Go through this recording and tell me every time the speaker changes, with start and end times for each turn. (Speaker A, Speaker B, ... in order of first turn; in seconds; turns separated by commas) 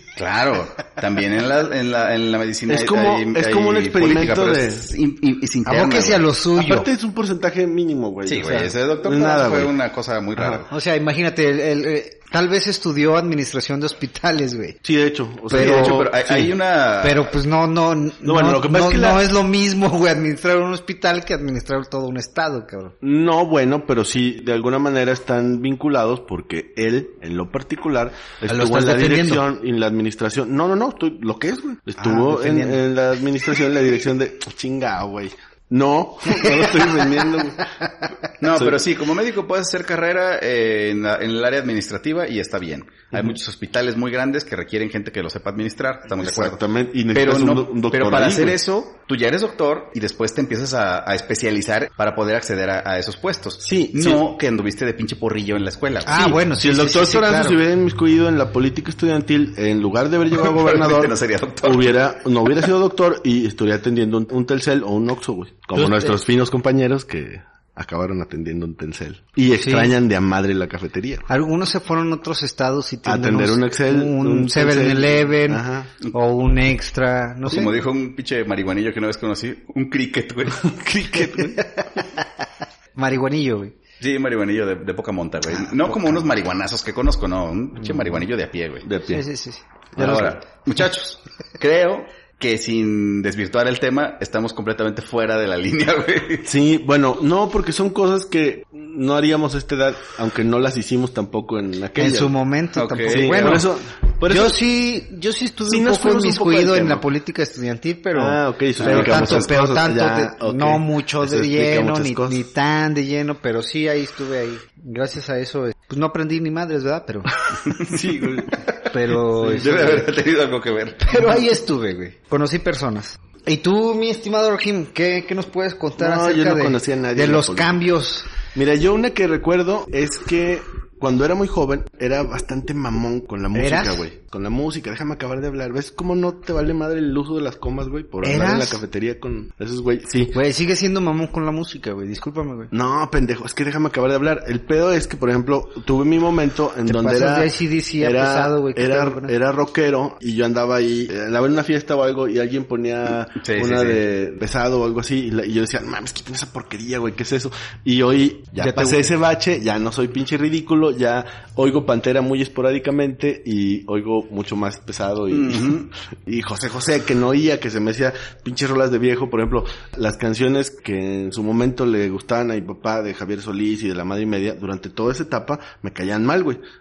Speaker A: 0.2-6.3, Speaker B: 2.7-4.9, Speaker C: 5.7-6.9, Speaker B: 6.6-9.8, Speaker A: 8.3-10.7, Speaker B: 10.4-10.6, Speaker C: 10.7-14.8, Speaker B: 14.8-16.5, Speaker C: 15.5-16.0, Speaker A: 15.5-17.3, Speaker C: 17.0-22.9, Speaker B: 18.2-19.2, Speaker B: 23.0-37.6, Speaker C: 28.5-29.4, Speaker C: 32.0-32.9, Speaker C: 36.3-38.1, Speaker A: 38.4-46.6, Speaker B: 38.5-38.8, Speaker B: 46.2-48.6, Speaker A: 47.1-56.2, Speaker B: 53.6-54.2, Speaker C: 56.1-57.6, Speaker B: 56.1-71.3, Speaker A: 60.4-62.1, Speaker C: 65.8-66.1, Speaker C: 69.5-69.9, Speaker C: 71.3-77.7, Speaker B: 73.1-75.9, Speaker A: 77.5-81.3, Speaker B: 80.6-81.6, Speaker C: 81.6-81.9, Speaker C: 83.0-83.8, Speaker A: 84.0-88.9, Speaker B: 88.8-89.2, Speaker C: 89.1-90.4, Speaker B: 90.0-90.4, Speaker A: 90.0-96.5, Speaker B: 96.5-102.3, Speaker C: 102.0-103.7, Speaker A: 102.8-103.7, Speaker B: 103.1-104.6, Speaker C: 104.3-117.3, Speaker B: 105.7-107.0, Speaker B: 108.1-112.5, Speaker A: 108.8-109.5, Speaker A: 117.7-118.9, Speaker B: 117.8-118.6, Speaker C: 118.9-120.1, Speaker A: 119.5-121.5, Speaker B: 119.5-119.9, Speaker C: 121.0-128.3, Speaker B: 126.0-127.8, Speaker B: 128.5-140.4, Speaker C: 133.6-134.0, Speaker C: 138.2-138.8, Speaker C: 140.3-142.7, Speaker B: 142.7-176.6, Speaker C: 146.9-149.3, Speaker A: 153.3-154.0, Speaker C: 158.6-159.1, Speaker A: 165.3-165.9